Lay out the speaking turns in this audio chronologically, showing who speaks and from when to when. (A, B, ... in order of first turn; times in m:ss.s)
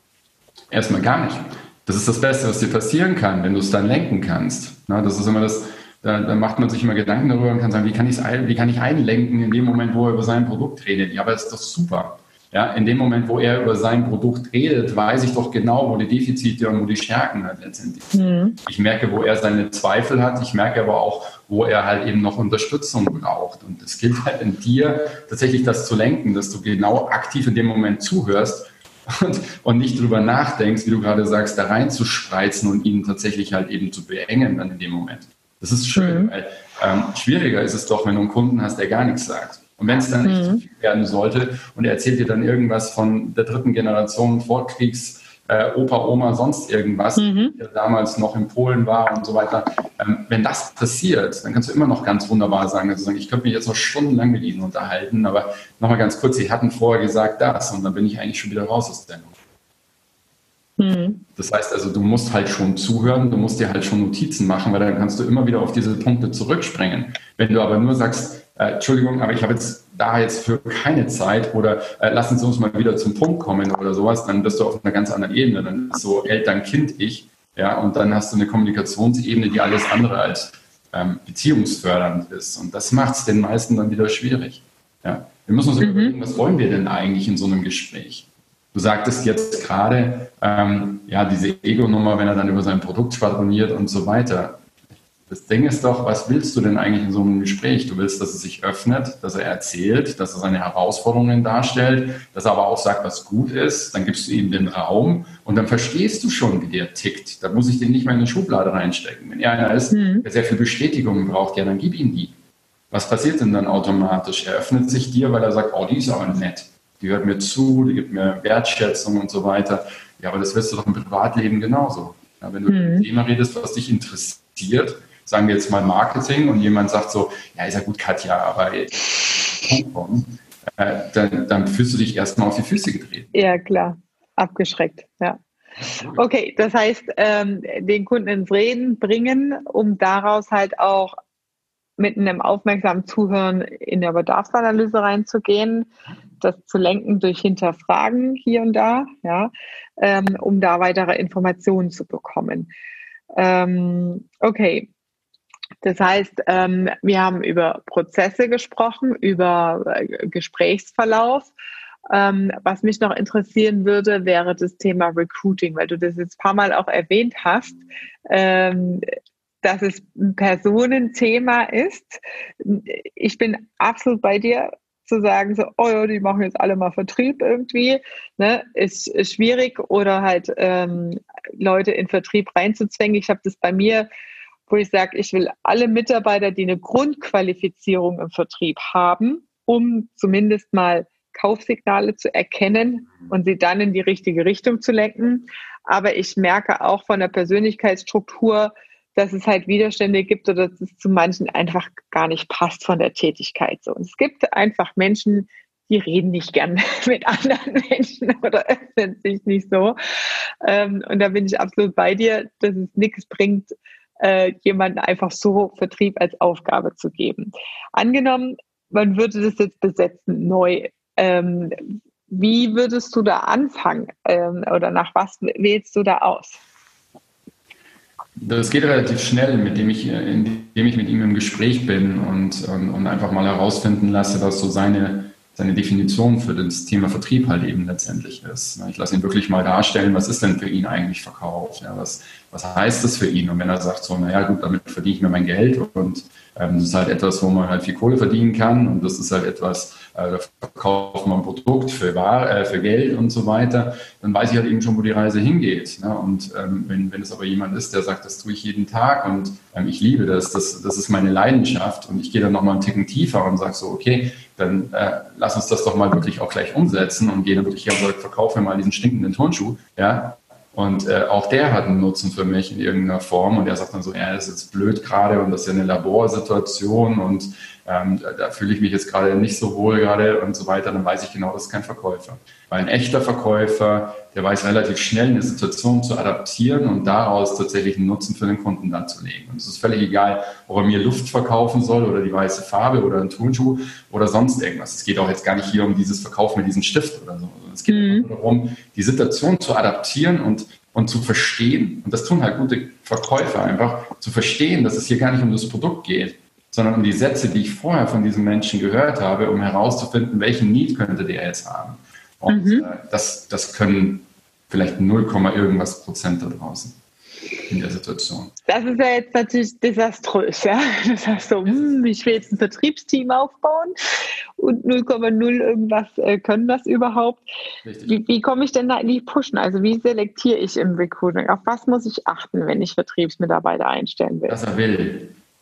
0:00.7-0:59.3 A
0:18.1-0:18.6 B
0:36.0-0:36.3 B
0:40.2-0:40.6 B
0:47.2-0:47.6 B
1:00.8-1:01.2 B
1:01.4-1:34.6 A
1:25.8-1:26.2 B
1:35.3-1:52.3 A
1:49.9-1:50.2 B
1:52.9-2:13.3 A
2:02.7-2:03.1 B
2:13.3-2:15.4 B
2:15.8-2:16.3 A
2:16.1-2:21.1 B
2:22.0-2:32.7 B
2:33.3-2:34.9 B
2:35.8-2:41.5 B
2:42.1-2:49.0 B
2:49.6-3:04.1 B
3:04.7-3:46.6 B
3:48.4-5:17.0 A
4:57.9-4:58.3 B
5:12.5-5:12.9 B
5:17.7-5:18.5 A
5:18.7-5:23.9 B
5:21.6-5:22.0 A
5:24.6-5:27.4 B
5:27.8-5:28.2 A
5:28.1-5:34.6 B
5:34.5-5:35.3 A